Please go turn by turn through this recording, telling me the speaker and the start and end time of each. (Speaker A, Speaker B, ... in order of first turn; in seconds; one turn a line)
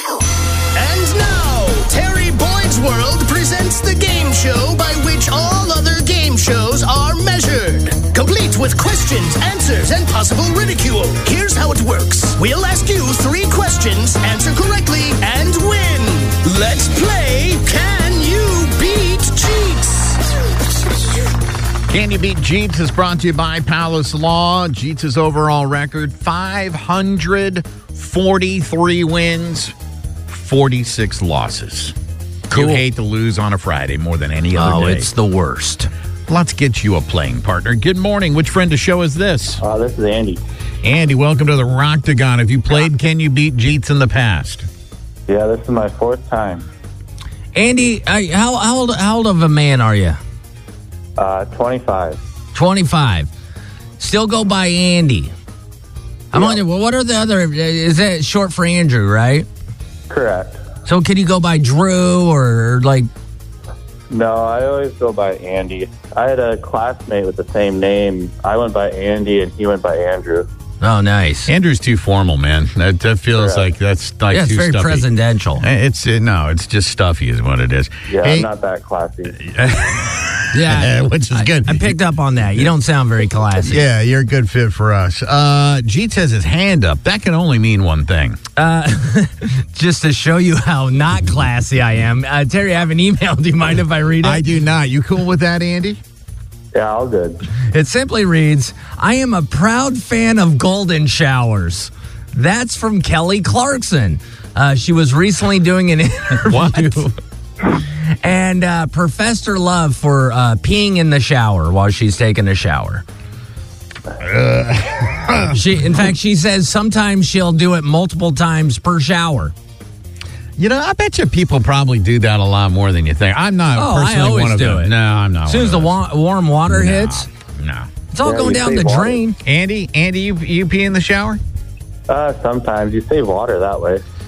Speaker A: 0.7-20.3
Speaker B: 21.9-29.7
Speaker B: 30.3-31.9
Speaker B: 32.5-35.1
Speaker C: 32.5-32.8
Speaker C: 34.5-35.9
Speaker B: 36.3-39.6
Speaker D: 39.6-40.4
Speaker B: 40.8-44.6
Speaker D: 45.3-46.6
Speaker C: 47.5-50.2
Speaker D: 51.2-52.2
Speaker C: 52.5-53.3
Speaker C: 54.0-55.3
Speaker C: 56.3-59.5
Speaker D: 60.1-60.6
Speaker C: 60.8-63.1
Speaker D: 64.1-70.5
Speaker C: 70.8-71.5
Speaker B: 71.5-78.5
Speaker D: 73.3-73.7
Speaker C: 74.3-75.6
Speaker D: 78.1-79.4
Speaker B: 79.4-82.0
Speaker C: 80.5-83.8
Speaker B: 83.6-88.4
Speaker C: 88.6-94.4
Speaker B: 94.2-96.0
Speaker D: 96.7-97.4
Speaker C: 97.6-107.0
Speaker B: 106.4-107.1
Speaker C: 108.0-113.0
Speaker B: 114.2-115.6
Speaker C: 115.5-119.5
Speaker B: 120.6-126.0
Speaker C: 123.8-124.9
Speaker C: 125.5-127.2
Speaker B: 126.7-127.9
Speaker C: 128.1-129.4
Speaker D: 128.2-129.2
Speaker B: 129.4-131.4
Speaker D: 132.1-134.0